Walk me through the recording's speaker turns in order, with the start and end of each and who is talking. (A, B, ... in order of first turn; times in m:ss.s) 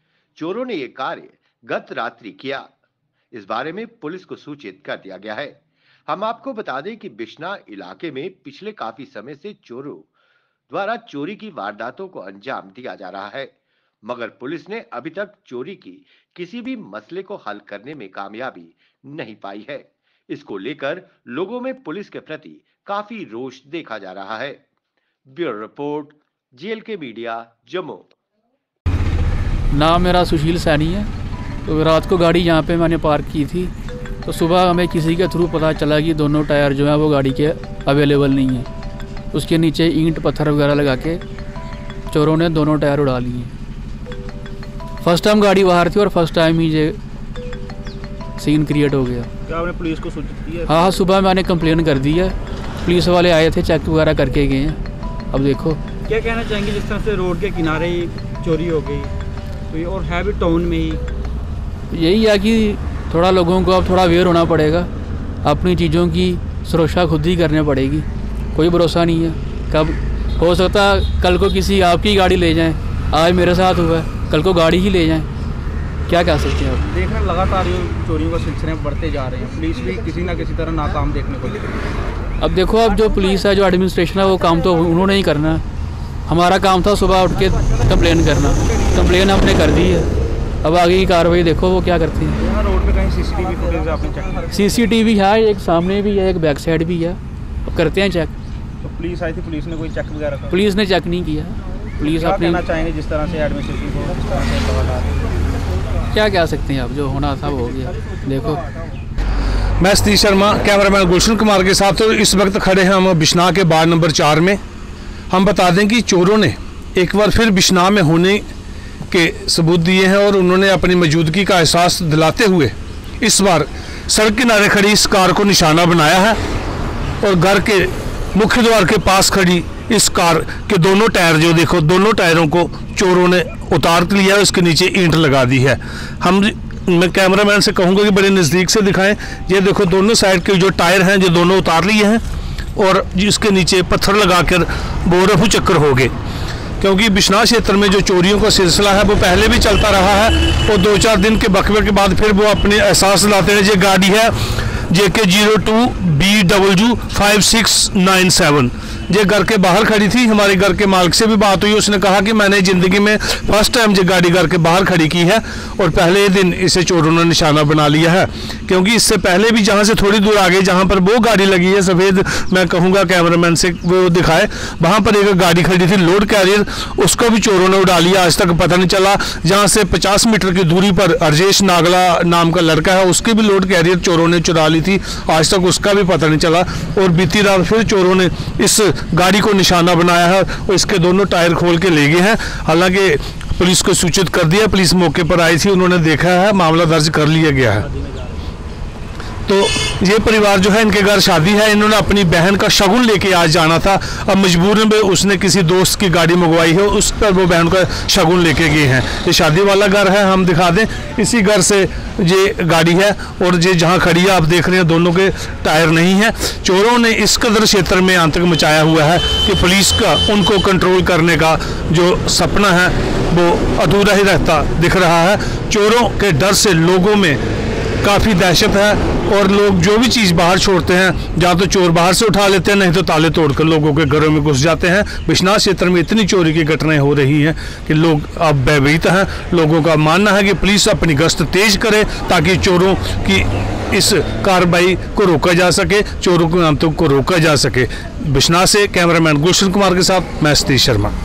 0:00.4-0:02.7 A
0:03.3-0:05.5 A
0:06.1-0:10.1 A
0:10.7-0:13.5 A
0:14.0-0:24.6 A
0:25.3-0:28.1 A
0:29.7-0:31.1 B
0:31.6-0:33.7 B
0:34.2-0:38.7 B
0:39.3-0:41.2 B
0:42.1-0:43.5 B
0:45.0-0:47.0 B
0:48.4-0:49.3 B
0:49.5-0:51.0 C
0:50.7-0:54.8 B
0:55.3-0:55.8 B
0:56.1-0:59.1 C
0:59.7-1:01.0 C
1:01.9-1:04.9 B
1:05.4-1:15.3 B
1:16.1-1:16.8 B
1:16.8-1:21.7 C
1:22.4-1:25.6 B
1:26.3-1:30.1 B
1:30.6-1:32.4 B
1:32.4-1:34.8 C
1:34.5-1:38.3 B
1:38.8-1:40.6 C
1:40.5-1:42.6 B
1:42.0-1:45.3 C
1:46.1-1:48.6 B
1:47.6-1:48.9 C
1:49.8-1:54.6 D
1:55.3-1:58.4 D
1:59.1-2:06.4 D
2:07.2-2:22.2 D
2:22.8-2:26.1 D
2:26.8-2:34.3 D
2:34.9-3:17.8 D
3:17.8-3:18.4 C
3:19.5-3:47.4 D
3:48.0-4:11.1 D